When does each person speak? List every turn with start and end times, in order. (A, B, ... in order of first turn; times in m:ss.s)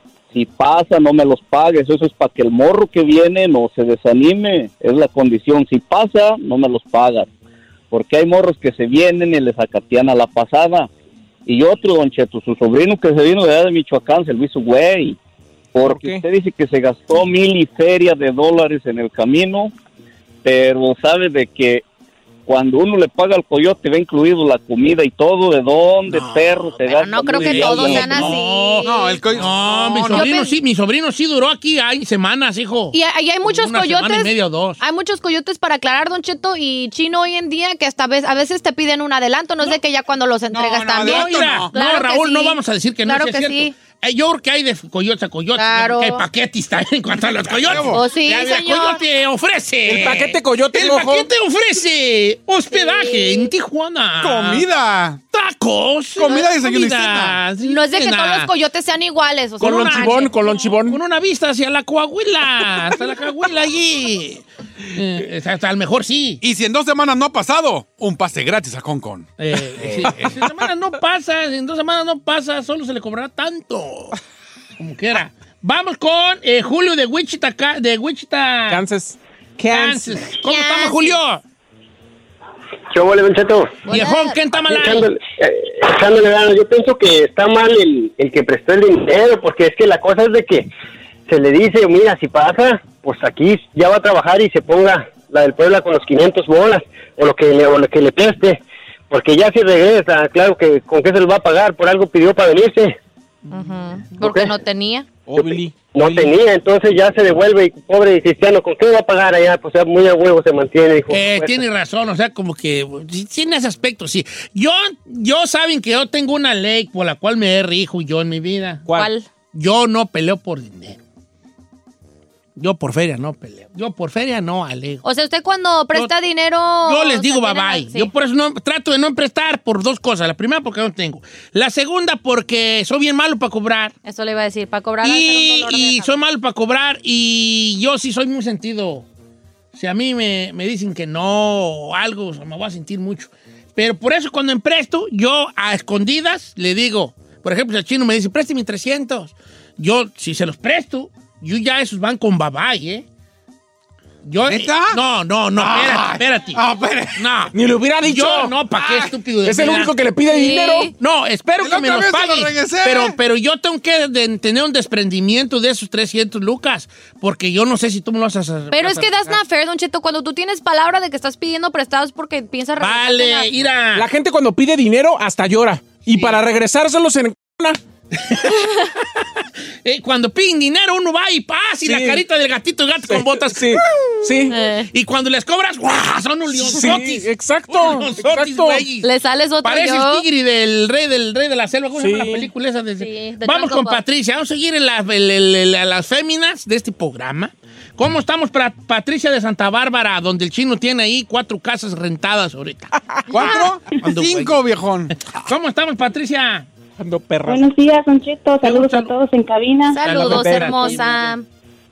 0:00.3-0:07.3 A
0:07.9-0:10.9 A
0:11.5-0:15.2 A
0:15.8-0:19.7 A
0:15.8-0:16.2 B
0:20.4-0:21.8 A
0:22.5-0:28.3 A
0:26.1-0:26.8 C
0:26.9-0:29.2 D
0:27.3-0:34.8 C
0:28.8-0:30.3 E
0:30.1-0:30.6 D
0:32.9-0:43.7 D
0:40.5-0:41.7 E
0:41.0-0:54.6 C
0:45.6-0:46.2 D
0:47.5-0:48.0 E
0:47.9-0:49.0 D
0:49.9-0:51.3 B
0:52.7-0:53.5 D
0:54.2-0:55.2 E
0:55.3-0:58.5 C
0:56.2-0:57.4 E
0:57.6-1:00.7 D
0:59.6-1:01.0 B
0:59.6-1:06.4 C
1:06.4-1:09.3 E
1:09.4-1:14.2 C
1:14.8-1:18.8 C
1:18.7-1:20.2 B
1:19.7-1:21.4 C
1:20.4-1:21.2 D
1:22.9-1:23.8 F
1:23.9-1:24.4 D
1:23.9-1:25.1 C
1:24.7-1:30.7 F
1:31.3-1:43.0 F
1:43.5-1:45.1 D
1:44.2-1:44.5 F
1:45.3-1:46.3 B
1:45.9-1:51.6 F
1:51.1-1:58.9 C
1:58.9-1:59.3 D
1:59.5-2:01.0 C
2:02.6-2:05.0 C
2:05.0-2:08.1 D
2:06.8-2:13.9 C
2:14.0-2:16.1 D
2:15.0-2:19.1 C
2:19.7-2:33.0 C
2:34.2-2:36.6 C
2:34.5-2:35.0 E
2:35.6-2:37.2 E
2:37.2-2:40.0 C
2:37.6-2:38.6 B
2:38.8-2:39.1 E
2:39.4-2:40.9 B
2:40.3-2:40.9 D
2:41.0-2:49.4 C
2:41.6-2:43.2 E
2:48.7-2:53.5 D
2:52.8-2:54.1 C
2:54.0-2:57.8 B
2:56.1-2:56.4 C
2:58.1-2:58.9 C
2:59.8-3:03.8 C
3:01.9-3:02.2 B
3:03.1-3:04.6 B
3:04.5-3:04.9 D
3:04.9-3:09.1 C
3:06.6-3:08.8 B
3:09.0-3:10.2 D
3:09.6-3:24.6 C
3:12.0-3:12.5 B
3:13.0-3:14.0 D
3:23.3-3:25.1 E
3:25.3-3:26.7 C
3:27.0-3:27.6 B
3:27.5-3:30.0 G
3:28.6-3:29.1 C
3:29.9-3:31.4 D
3:30.0-3:31.4 C
3:30.4-3:30.8 B